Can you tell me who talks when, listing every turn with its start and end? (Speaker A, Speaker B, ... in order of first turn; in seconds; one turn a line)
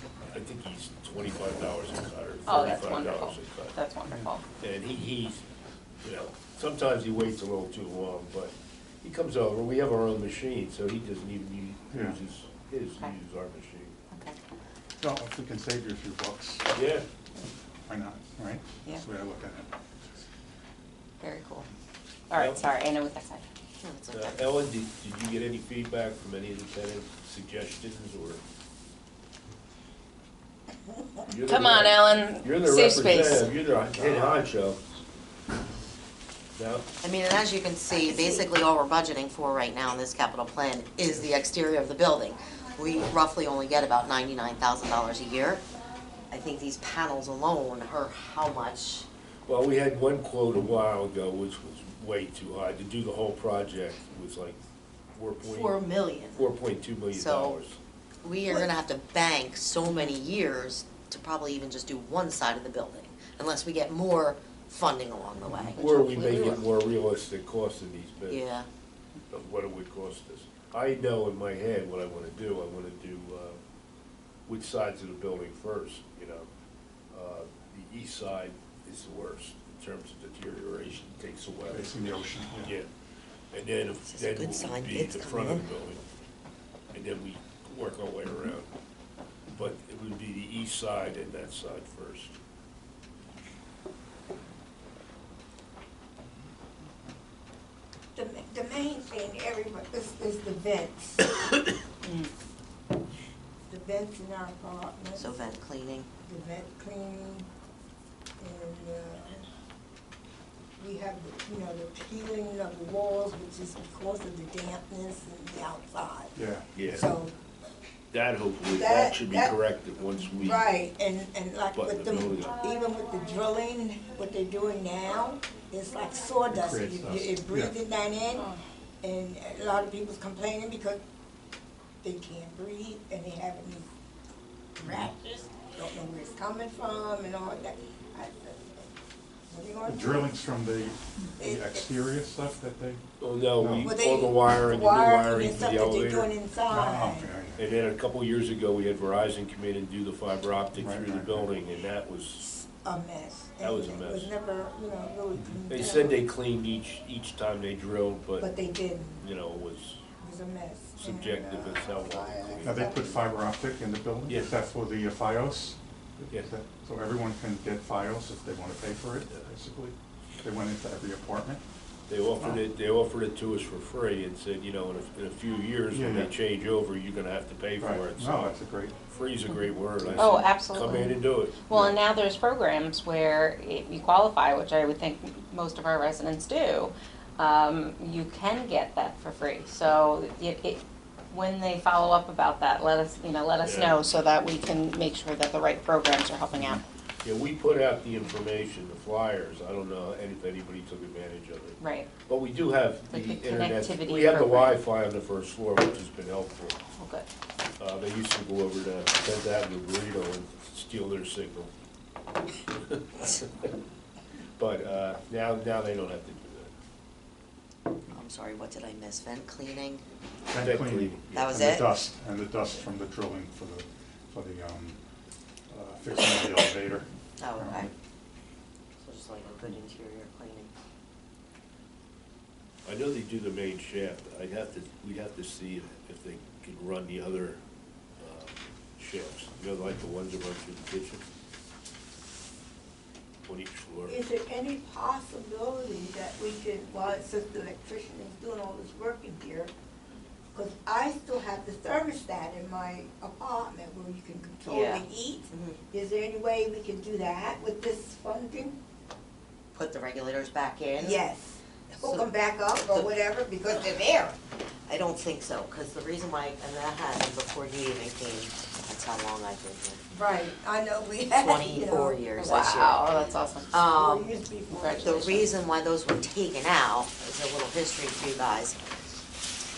Speaker A: 0.3-3.7
Speaker B: 2.5-4.4
Speaker A: 4.6-5.4
Speaker A: 6.0-13.9
Speaker C: 11.9-12.2
Speaker B: 14.1-14.4
Speaker C: 15.0-16.7
Speaker A: 16.7-17.1
Speaker C: 17.8-19.7
Speaker B: 21.2-21.7
Speaker B: 22.3-23.4
Speaker A: 22.3-22.6
Speaker D: 23.8-24.4
Speaker A: 24.1-28.4
Speaker A: 31.3-34.8
Speaker B: 31.4-33.5
Speaker A: 36.5-36.9
Speaker D: 37.0-45.6
Speaker E: 37.9-38.5
Speaker D: 46.3-49.0
Speaker A: 49.5-54.6
Speaker A: 55.1-57.8
Speaker D: 55.4-56.5
Speaker D: 57.1-57.6
Speaker D: 58.2-66.6
Speaker A: 65.6-68.4
Speaker D: 68.3-68.7
Speaker A: 69.3-73.6
Speaker A: 74.5-76.5
Speaker A: 77.1-82.9
Speaker C: 81.7-82.7
Speaker A: 83.5-86.0
Speaker D: 84.0-85.7
Speaker A: 86.9-88.7
Speaker A: 89.5-92.3
Speaker E: 98.1-101.3
Speaker B: 102.0-102.3
Speaker E: 103.7-105.4
Speaker D: 105.2-106.1
Speaker E: 106.2-107.5
Speaker E: 108.4-109.5
Speaker E: 110.8-117.3
Speaker C: 116.3-116.7
Speaker A: 116.7-117.1
Speaker A: 118.1-120.6
Speaker E: 118.7-119.5
Speaker E: 120.3-128.5
Speaker A: 121.7-122.5
Speaker C: 126.5-127.7
Speaker B: 128.4-128.6
Speaker E: 129.0-131.0
Speaker E: 132.0-133.9
Speaker E: 134.8-138.9
Speaker E: 139.5-140.4
Speaker C: 139.8-143.0
Speaker E: 141.4-142.0
Speaker A: 143.2-146.3
Speaker C: 143.6-143.9
Speaker E: 143.8-147.3
Speaker C: 146.7-147.6
Speaker A: 147.6-152.4
Speaker C: 150.8-151.5
Speaker E: 152.4-156.2
Speaker A: 153.6-154.3
Speaker A: 155.7-158.5
Speaker E: 158.4-159.2
Speaker A: 159.2-160.0
Speaker E: 160.2-163.2
Speaker A: 161.0-163.2
Speaker C: 162.6-171.6
Speaker A: 164.3-164.5
Speaker A: 172.1-178.6
Speaker C: 175.9-176.3
Speaker C: 177.8-179.0
Speaker A: 179.1-182.0
Speaker B: 180.1-196.8
Speaker A: 193.6-194.0
Speaker A: 197.2-206.8
Speaker B: 201.8-202.1
Speaker B: 203.1-204.8
Speaker B: 207.0-207.2
Speaker A: 207.8-211.7
Speaker A: 212.8-213.7
Speaker A: 214.6-216.7
Speaker D: 218.1-220.0
Speaker C: 220.5-225.0
Speaker A: 220.5-221.6
Speaker D: 221.3-221.9
Speaker C: 225.7-227.9
Speaker D: 227.4-227.9
Speaker D: 229.0-230.7
Speaker A: 232.8-237.6
Speaker A: 238.2-241.2
Speaker A: 243.4-244.2
Speaker E: 244.1-249.7
Speaker E: 250.5-258.8
Speaker D: 254.7-255.0
Speaker D: 255.5-255.8
Speaker D: 259.7-261.2
Speaker E: 261.0-264.4
Speaker D: 261.9-262.3
Speaker D: 264.9-270.0
Speaker E: 270.1-272.2
Speaker D: 271.3-274.3
Speaker B: 272.4-273.7
Speaker E: 273.8-275.3
Speaker B: 274.7-275.5
Speaker D: 275.0-278.8